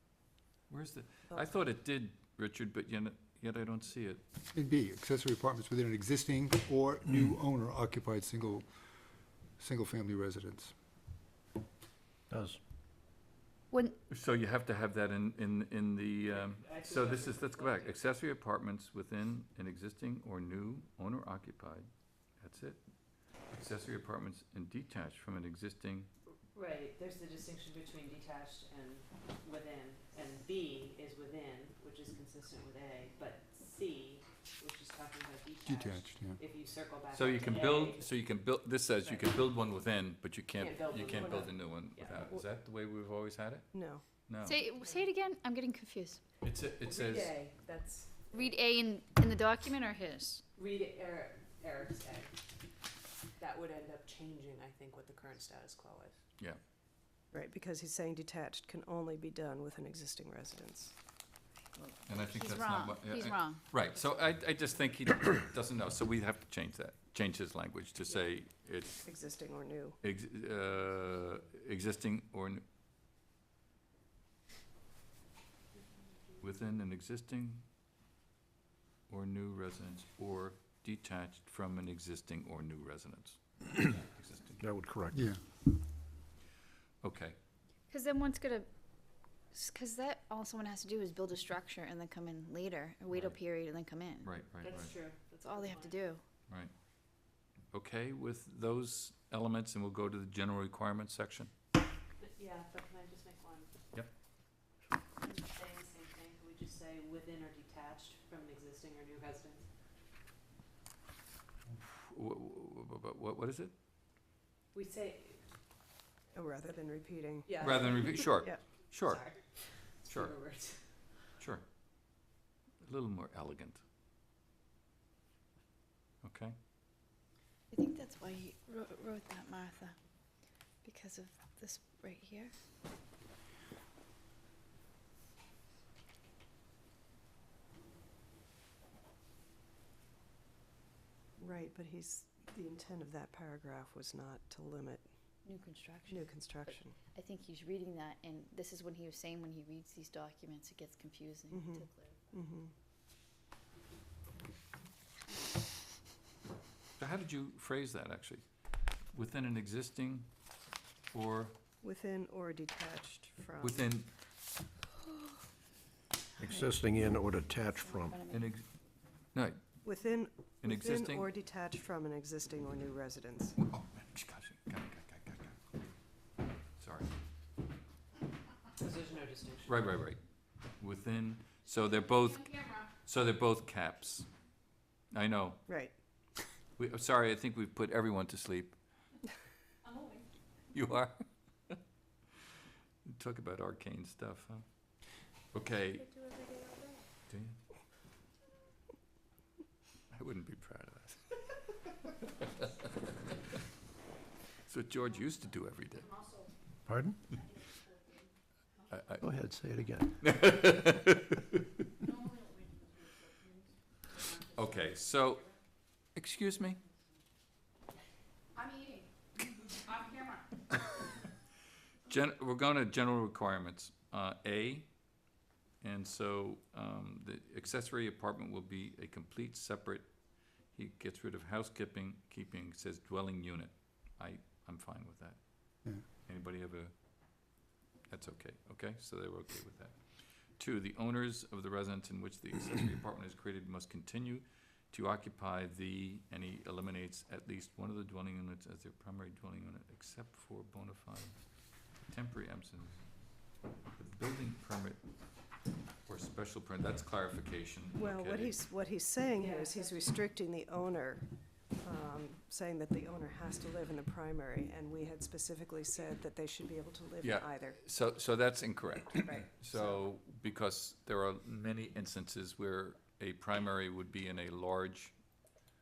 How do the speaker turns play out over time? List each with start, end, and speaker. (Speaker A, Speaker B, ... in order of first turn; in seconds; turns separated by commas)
Speaker A: 0.7-4.2, Speaker B: 4.5-8.7, Speaker B: 9.6-10.7, Speaker C: 12.3-12.6, Speaker D: 13.7-14.0, Speaker A: 14.1-21.9, Speaker E: 16.3-18.0, Speaker A: 22.4-26.1, Speaker E: 26.5-38.3, Speaker B: 35.7-36.4, Speaker A: 37.1-44.6, Speaker E: 40.5-42.5, Speaker F: 43.7-44.0, Speaker D: 44.4-46.2, Speaker A: 46.4-47.3, Speaker E: 46.8-48.5, Speaker D: 48.3-50.4, Speaker E: 50.5-52.3, Speaker E: 53.4-56.2, Speaker F: 57.3-61.0, Speaker D: 61.8-63.6, Speaker A: 62.1-69.1, Speaker F: 69.0-70.0, Speaker A: 70.0-72.6, Speaker A: 76.4-77.6, Speaker A: 79.1-84.7, Speaker C: 84.6-85.3, Speaker B: 85.1-85.4, Speaker A: 87.0-87.4, Speaker D: 87.9-94.3, Speaker A: 93.1-93.4, Speaker A: 94.2-95.0, Speaker E: 94.6-96.0, Speaker D: 95.4-96.2, Speaker A: 97.7-101.5, Speaker E: 102.2-103.7, Speaker E: 105.2-109.7, Speaker A: 111.7-113.7, Speaker E: 114.7-115.5, Speaker F: 116.3-118.6, Speaker E: 117.5-121.2, Speaker A: 117.6-120.3, Speaker A: 121.4-121.7, Speaker A: 122.8-123.8, Speaker A: 126.2-126.5, Speaker D: 127.7-130.0, Speaker D: 130.8-132.5, Speaker F: 141.4-145.1, Speaker D: 145.4-152.3, Speaker F: 146.1-147.0, Speaker F: 151.5-152.7, Speaker A: 157.0-160.3, Speaker A: 161.1-161.6, Speaker F: 161.8-163.9, Speaker A: 163.6-164.1, Speaker C: 166.4-168.2, Speaker D: 166.4-166.7, Speaker D: 167.8-168.5, Speaker A: 168.3-168.7, Speaker A: 169.3-169.6, Speaker F: 169.8-173.6, Speaker A: 170.6-171.3, Speaker A: 173.6-175.6, Speaker A: 176.8-177.1, Speaker E: 178.8-179.7, Speaker A: 179.7-184.3, Speaker A: 185.1-185.7, Speaker F: 185.7-185.9, Speaker A: 186.8-188.8, Speaker A: 190.7-191.8, Speaker A: 193.1-194.7, Speaker A: 195.4-196.1, Speaker A: 197.3-197.6, Speaker A: 200.1-201.6, Speaker A: 204.7-206.3, Speaker C: 206.8-207.2, Speaker A: 208.9-209.3, Speaker C: 209.2-210.5, Speaker A: 210.2-211.2, Speaker A: 214.5-216.8, Speaker D: 218.7-219.0, Speaker A: 222.1-225.0, Speaker A: 225.8-237.5, Speaker A: 238.1-251.4, Speaker A: 252.0-253.2, Speaker A: 253.9-255.0, Speaker A: 256.1-258.6, Speaker F: 257.9-267.8, Speaker E: 259.4-260.0, Speaker A: 267.2-275.4, Speaker F: 269.2-270.1